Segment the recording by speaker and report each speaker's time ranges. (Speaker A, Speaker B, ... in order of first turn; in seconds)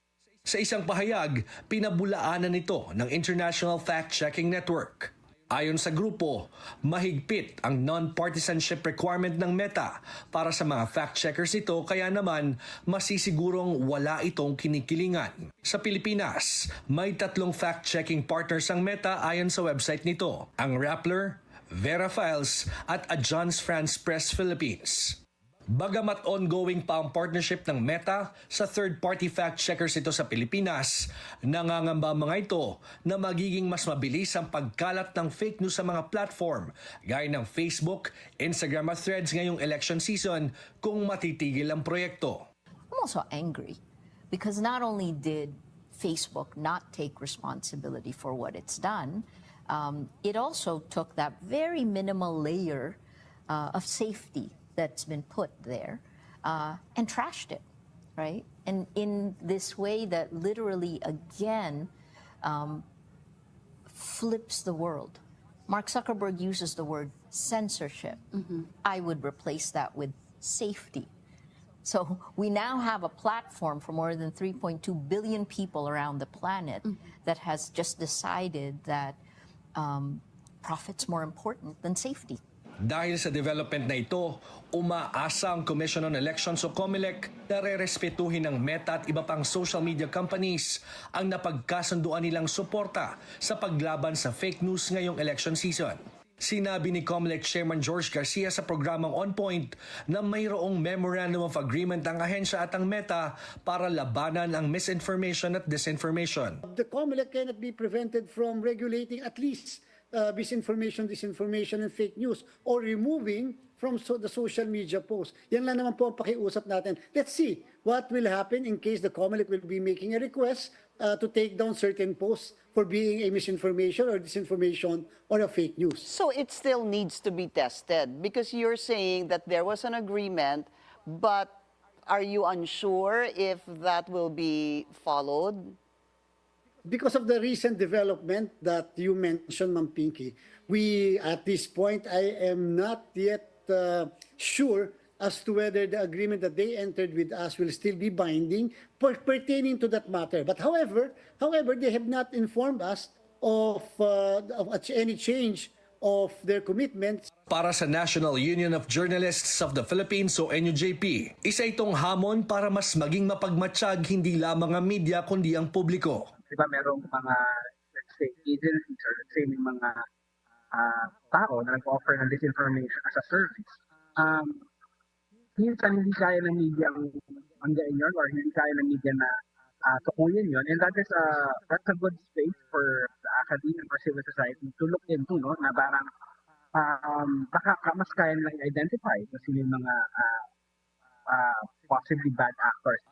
Speaker A: 0.5-25.2, 25.7-42.5, 82.8-106.6, 157.5-166.3
Speaker B: 42.9-43.8, 44.3-57.6, 58.2-61.9, 62.4-62.9, 63.9-68.2, 68.8-71.1, 71.8-79.2, 79.8-82.4
Speaker C: 106.7-126.1, 136.8-157.3
Speaker D: 126.0-135.8
Speaker E: 166.5-167.4, 168.0-170.0, 170.7-174.6, 175.6-179.3, 179.8-186.1, 186.7-190.4, 191.3-193.0